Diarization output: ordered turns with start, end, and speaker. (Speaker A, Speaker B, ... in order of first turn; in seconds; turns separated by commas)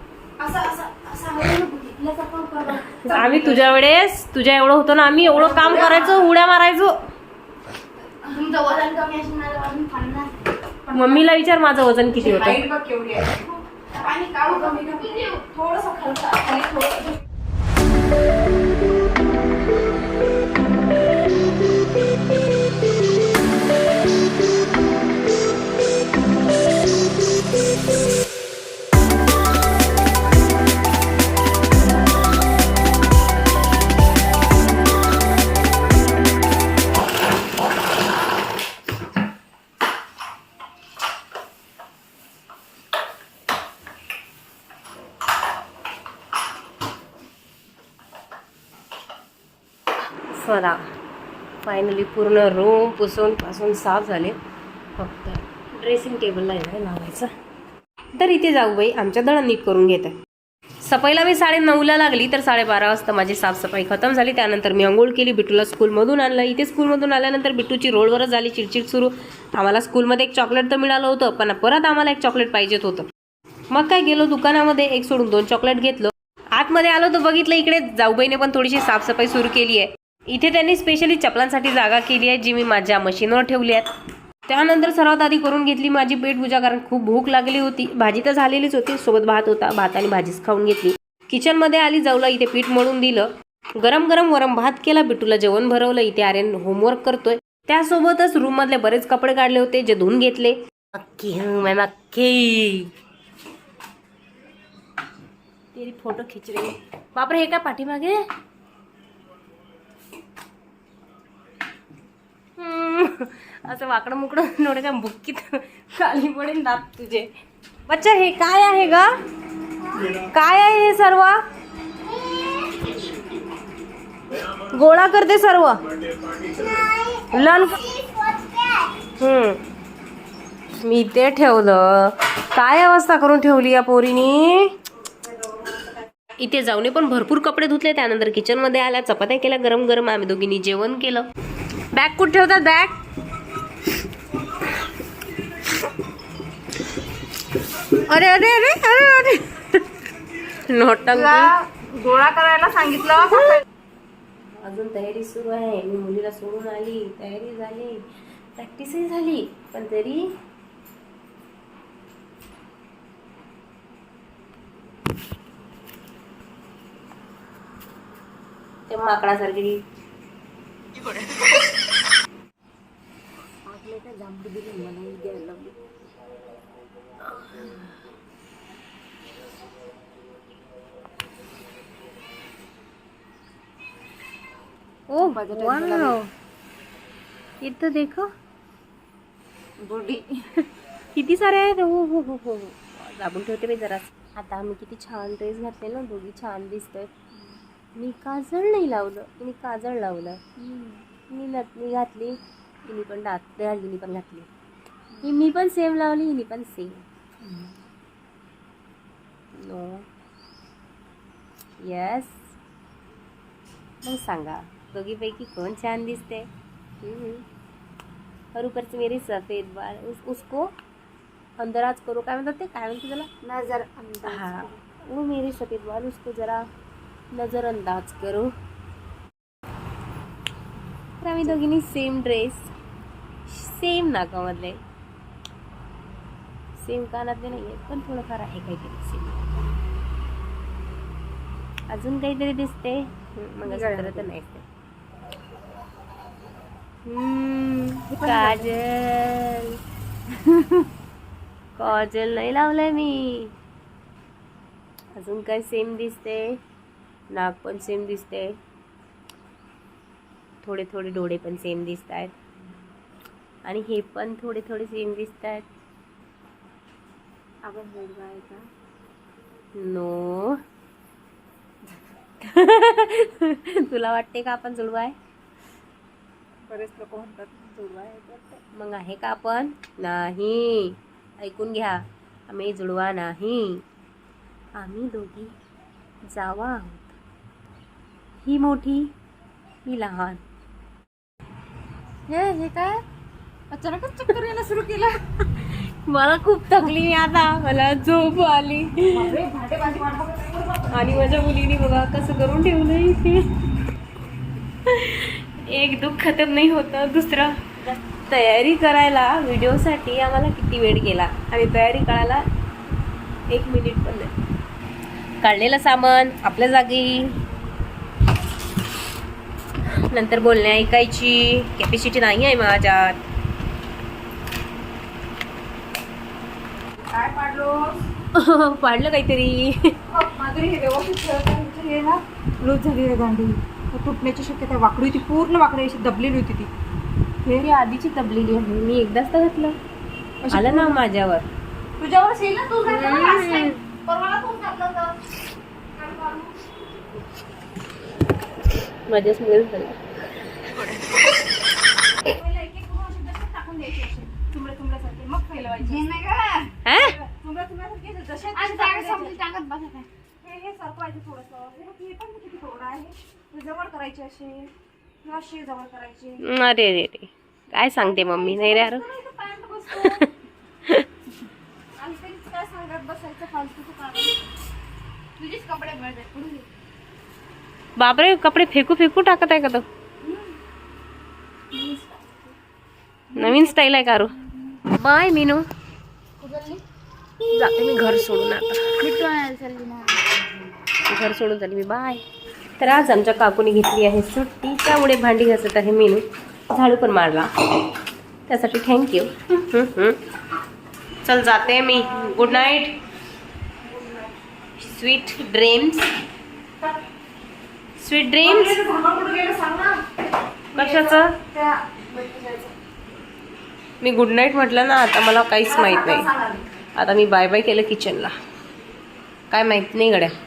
Speaker A: 0.4-3.7, Speaker B: 0.5-2.6, Speaker C: 3.0-7.0, Speaker A: 5.3-6.0, Speaker B: 8.2-10.4, Speaker A: 10.9-11.2, Speaker C: 10.9-12.6, Speaker A: 12.1-13.5, Speaker B: 13.9-16.2, Speaker A: 14.4-17.2, Speaker C: 50.3-50.9, Speaker C: 51.6-54.4, Speaker C: 55.0-57.3, Speaker C: 58.2-60.1, Speaker C: 60.8-73.1, Speaker C: 73.7-83.9, Speaker C: 84.5-102.9, Speaker C: 105.7-108.2, Speaker C: 112.6-117.3, Speaker C: 117.9-119.1, Speaker C: 119.9-121.4, Speaker C: 124.6-125.8, Speaker C: 127.3-127.9, Speaker B: 127.9-128.9, Speaker C: 129.2-129.6, Speaker C: 130.8-134.7, Speaker C: 136.4-141.3, Speaker C: 141.9-143.0, Speaker C: 147.9-149.7, Speaker C: 150.5-151.5, Speaker A: 151.1-153.6, Speaker C: 154.4-160.2, Speaker C: 168.9-169.8, Speaker A: 173.7-175.8, Speaker C: 177.3-177.9, Speaker C: 185.1-186.3, Speaker A: 185.2-186.2, Speaker C: 187.6-188.3, Speaker A: 189.8-190.3, Speaker C: 191.2-197.1, Speaker C: 198.0-200.4, Speaker A: 200.6-201.0, Speaker C: 201.3-204.5, Speaker C: 205.2-207.1, Speaker A: 207.5-207.7, Speaker C: 209.6-210.1, Speaker C: 211.8-212.5, Speaker C: 214.0-216.5, Speaker C: 217.0-217.4, Speaker C: 218.6-220.7, Speaker C: 221.6-223.3, Speaker A: 223.4-224.7, Speaker C: 224.2-226.7, Speaker C: 227.3-228.5, Speaker C: 231.2-232.7, Speaker C: 233.5-234.8, Speaker C: 236.8-239.4, Speaker C: 241.9-244.7, Speaker A: 243.6-244.3, Speaker C: 247.1-249.8, Speaker A: 248.1-248.7, Speaker C: 251.8-253.5, Speaker C: 255.2-256.6, Speaker C: 257.3-258.6, Speaker C: 260.6-262.3, Speaker C: 263.7-265.7, Speaker A: 267.6-268.6, Speaker C: 269.8-270.6, Speaker C: 272.4-275.1, Speaker A: 276.7-278.6, Speaker C: 278.8-283.8, Speaker C: 284.8-285.5, Speaker C: 286.3-287.2, Speaker C: 288.4-289.1, Speaker C: 289.9-290.4, Speaker C: 292.3-293.0, Speaker A: 293.7-295.2, Speaker C: 295.4-299.3, Speaker A: 299.1-301.3, Speaker C: 300.9-303.5, Speaker C: 304.8-312.4, Speaker C: 313.5-314.3, Speaker C: 315.4-317.4, Speaker C: 319.9-323.2, Speaker A: 327.1-328.0, Speaker C: 328.4-329.9, Speaker A: 330.1-336.7, Speaker C: 337.5-339.8, Speaker A: 340.4-341.1, Speaker C: 340.5-341.4, Speaker A: 342.0-345.2, Speaker C: 342.9-343.8, Speaker A: 345.9-346.7, Speaker C: 349.1-350.0, Speaker A: 352.2-359.4, Speaker B: 355.9-356.7, Speaker C: 356.9-357.2, Speaker B: 358.5-360.1, Speaker A: 360.4-364.7, Speaker A: 365.2-366.4, Speaker C: 366.4-369.0, Speaker A: 368.0-370.3, Speaker C: 370.0-370.2, Speaker A: 372.0-374.4, Speaker A: 375.4-376.6, Speaker B: 375.8-376.3, Speaker C: 378.0-379.9, Speaker A: 380.2-380.5, Speaker B: 381.7-382.3, Speaker C: 383.4-384.4, Speaker C: 384.9-385.6, Speaker B: 386.4-386.8, Speaker C: 387.5-389.0, Speaker B: 389.0-390.4, Speaker C: 391.1-392.2, Speaker C: 392.8-397.5, Speaker C: 398.5-400.2, Speaker C: 401.2-403.0, Speaker A: 401.8-402.7, Speaker A: 403.9-404.3, Speaker C: 404.8-406.1, Speaker C: 408.0-408.8, Speaker A: 408.4-410.0, Speaker A: 410.7-412.7, Speaker C: 410.8-411.4, Speaker C: 414.0-416.3, Speaker A: 415.7-416.6, Speaker C: 417.0-418.3, Speaker C: 419.5-420.3